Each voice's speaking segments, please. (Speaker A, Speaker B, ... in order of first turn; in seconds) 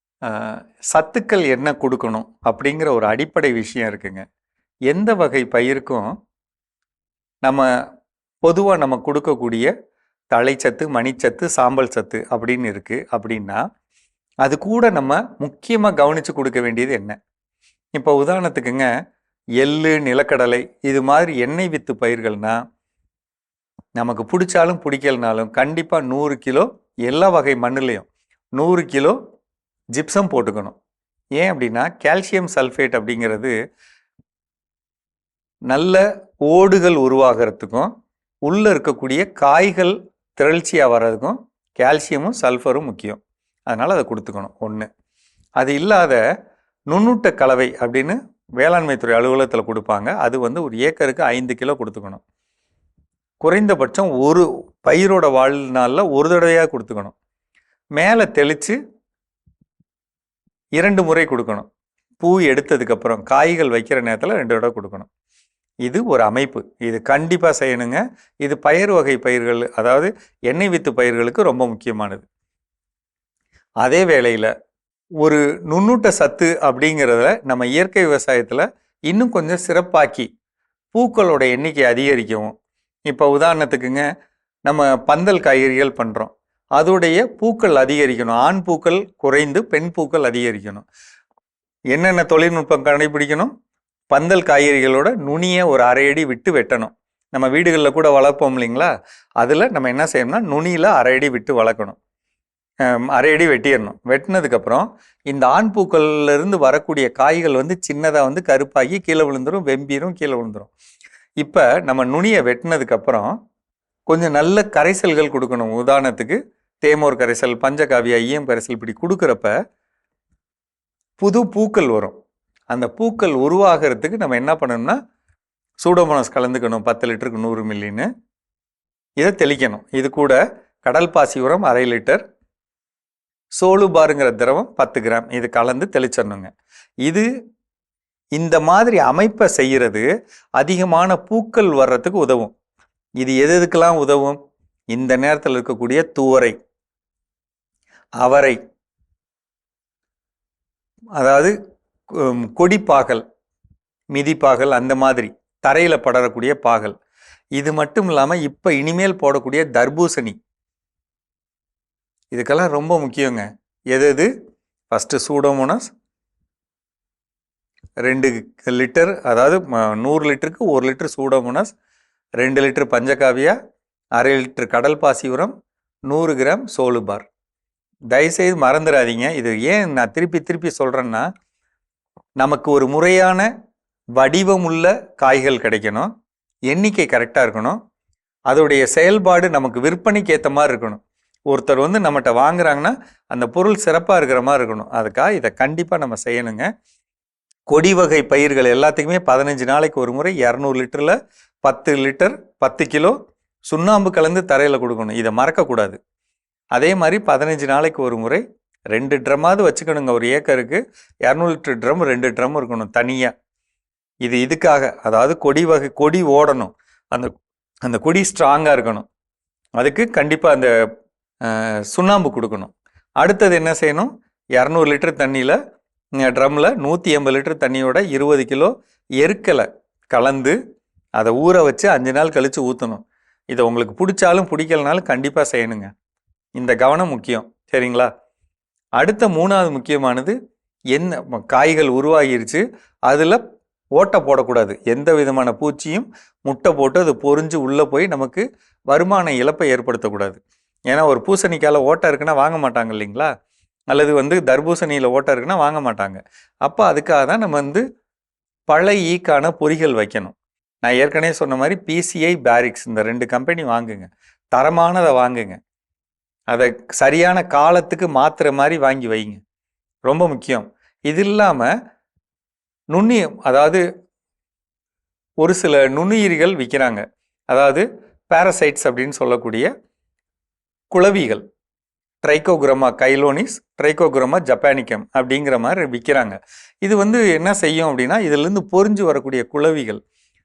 Speaker A: 0.3-4.2, 4.9-6.1, 8.4-9.7, 10.3-13.6, 14.4-17.2, 17.9-18.9, 19.6-22.6, 24.0-29.2, 29.9-30.8, 31.4-33.5, 35.7-37.9, 38.5-44.9, 45.6-46.2, 46.9-52.2, 53.4-57.1, 58.0-58.8, 60.8-61.7, 62.2-65.1, 65.8-72.2, 73.8-74.5, 75.2-80.3, 80.9-82.5, 83.1-84.0, 84.7-90.9, 91.9-93.5, 94.1-102.0, 102.9-110.7, 111.4-113.3, 114.1-119.5, 121.2-122.1, 122.7-125.0, 125.8-128.1, 129.2-132.2, 133.6-136.5, 138.4-140.1, 140.6-142.5, 143.2-144.4, 144.9-146.6, 148.2-148.6, 151.2-151.5, 152.1-153.2, 154.1-156.9, 157.6-160.4, 162.3-164.3, 164.9-165.9, 168.0-171.7, 172.4-173.6, 174.2-175.5, 176.1-177.3, 178.1-181.2, 182.4-183.5, 184.2-186.1, 186.7-187.8, 188.5-196.7, 197.7-203.2, 203.7-206.0, 206.8-213.3, 214.2-217.3, 217.9-219.1, 219.8-220.7, 221.4-225.6, 226.2-230.6, 231.2-235.9, 236.6-238.1, 239.0-240.4, 240.9-243.4, 244.0-250.4, 250.9-253.3, 253.9-257.8, 258.7-265.6, 266.5-269.4, 270.1-271.7, 272.9-273.8, 275.4-279.7, 280.9-281.4, 282.2-290.0